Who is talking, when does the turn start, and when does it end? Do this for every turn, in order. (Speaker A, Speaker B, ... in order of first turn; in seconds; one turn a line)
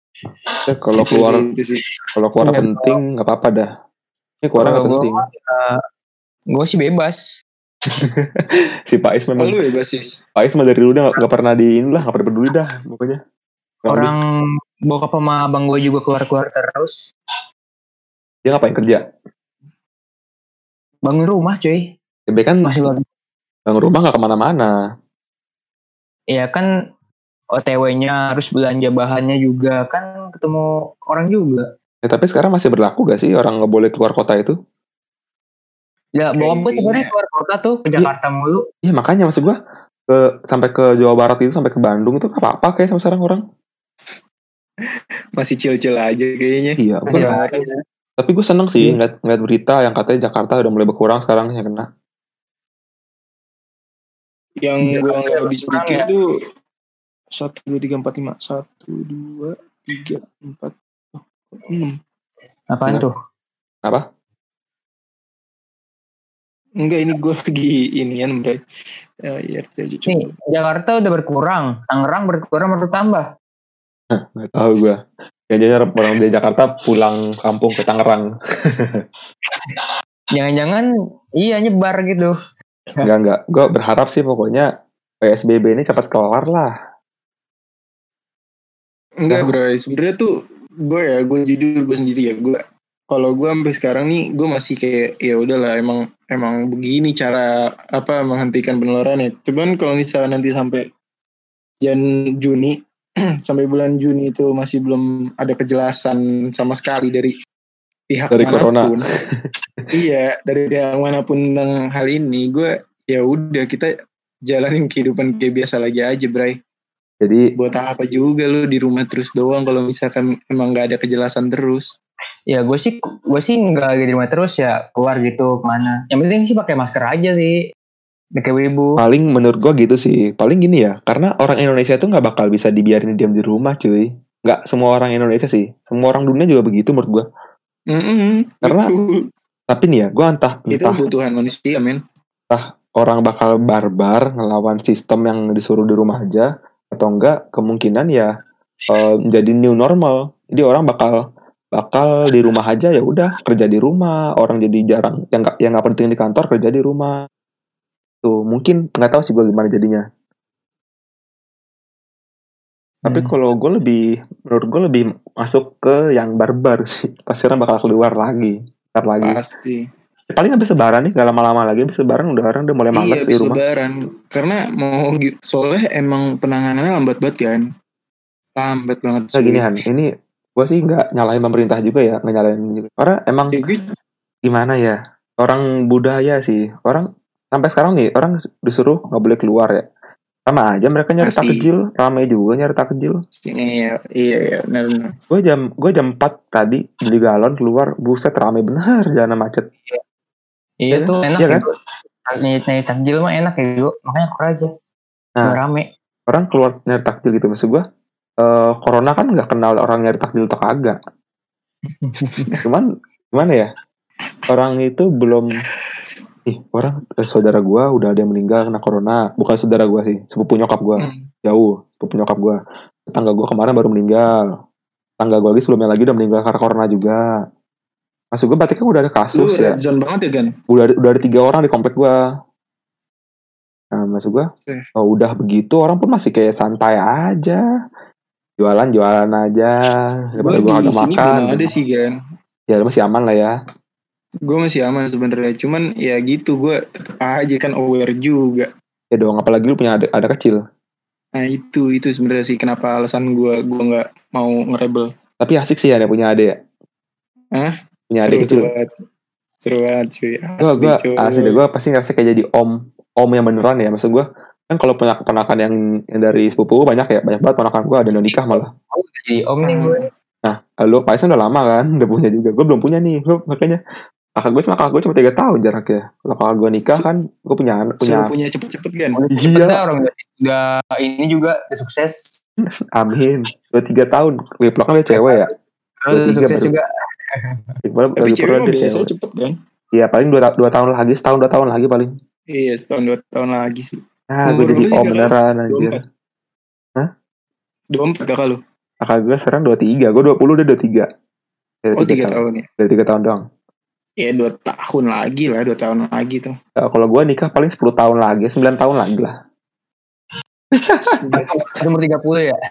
Speaker A: 0.7-1.4
Speaker B: 1.0-1.8
Speaker A: 2.2-3.7
Speaker C: 2.4-2.9
Speaker A: 4.4-5.2
Speaker C: 4.6-5.8
Speaker C: 6.5-7.4
Speaker A: 8.0-9.6
Speaker B: 9.4-10.2
Speaker A: 10.3-13.2
Speaker A: 13.9-14.1
Speaker C: 13.9-14.2
Speaker C: 14.9-17.1
Speaker A: 18.4-19.0
Speaker C: 21.0-21.9
Speaker A: 22.3-22.6
Speaker C: 22.6-23.0
Speaker A: 23.7-24.7
Speaker C: 26.3-26.7
Speaker C: 27.5-31.6
Speaker A: 32.0-34.5
Speaker C: 36.1-38.6
Speaker B: 36.4-37.1
Speaker A: 38.8-39.6
Speaker A: 40.1-43.4
Speaker B: 45.4-47.6
Speaker A: 46.8-47.3
Speaker C: 47.1-47.7
Speaker A: 48.2-51.8
Speaker B: 54.6-56.2
Speaker C: 54.9-56.0
Speaker B: 57.4-62.0
Speaker C: 62.7-63.1
Speaker B: 66.8-68.6
Speaker B: 69.3-70.3
Speaker C: 70.1-73.3
Speaker A: 74.1-79.0
Speaker C: 79.5-80.9
Speaker C: 81.4-82.3
Speaker A: 83.0-84.7
Speaker A: 85.2-86.7
Speaker B: 89.2-90.3
Speaker B: 90.8-97.5
Speaker B: 98.0-100.8
Speaker B: 101.8-102.8
Speaker B: 103.5-107.3
Speaker B: 108.1-109.0
Speaker A: 108.3-109.9
Speaker B: 109.9-113.9
Speaker B: 114.5-116.5
Speaker B: 117.6-121.8
Speaker C: 122.5-127.6
Speaker C: 128.4-129.0
Speaker A: 129.0-137.2
Speaker B: 137.9-139.2
Speaker A: 138.6-138.9
Speaker A: 139.7-141.0
Speaker B: 140.7-142.0
Speaker A: 142.5-148.3
Speaker A: 148.9-151.2
Speaker A: 151.7-157.1
Speaker A: 158.2-160.0
Speaker A: 163.1-169.4
Speaker B: 169.2-169.8
Speaker A: 170.3-173.6
Speaker B: 172.9-177.6
Speaker B: 178.6-179.7
Speaker A: 179.3-183.5
Speaker B: 183.5-183.9
Speaker A: 184.4-189.8
Speaker A: 190.5-193.2
Speaker B: 191.2-191.7
Speaker B: 193.4-195.1
Speaker A: 195.3-199.7
Speaker C: 200.8-201.7
Speaker A: 200.9-201.7
Speaker C: 202.2-204.7
Speaker C: 205.4-205.8
Speaker A: 206.3-207.8
Speaker A: 208.4-211.0
Speaker C: 212.0-212.5
Speaker B: 212.3-212.6
Speaker A: 212.6-213.7
Speaker A: 214.5-215.5
Speaker A: 216.5-224.3
Speaker B: 221.0-221.2
Speaker A: 225.2-227.2
Speaker A: 228.3-229.7
Speaker B: 229.3-230.5
Speaker A: 230.7-232.1
Speaker A: 233.9-237.6
Speaker A: 238.6-241.7
Speaker B: 240.4-242.1
Speaker A: 242.7-243.5
Speaker B: 244.5-248.7
Speaker A: 249.1-250.6
Speaker B: 251.4-255.1
Speaker A: 255.4-256.5
Speaker B: 257.6-258.9
Speaker A: 258.1-258.7
Speaker B: 259.6-261.6
Speaker A: 260.6-268.7
Speaker C: 268.3-270.0
Speaker B: 269.6-270.0
Speaker A: 270.4-273.8
Speaker A: 274.4-278.3
Speaker B: 278.0-279.2
Speaker C: 279.2-282.4
Speaker A: 279.3-279.8
Speaker A: 282.6-285.5
Speaker C: 285.1-287.8
Speaker A: 286.1-286.7
Speaker A: 287.8-289.1
Speaker B: 288.2-289.5
Speaker A: 289.9-292.1
Speaker B: 292.5-296.0
Speaker A: 294.3-296.0
Speaker B: 297.9-298.6
Speaker A: 299.0-301.1
Speaker A: 301.8-303.4
Speaker B: 302.0-302.6
Speaker B: 304.2-306.5
Speaker A: 306.8-309.3
Speaker A: 310.7-311.4
Speaker B: 311.2-311.5
Speaker C: 311.5-312.5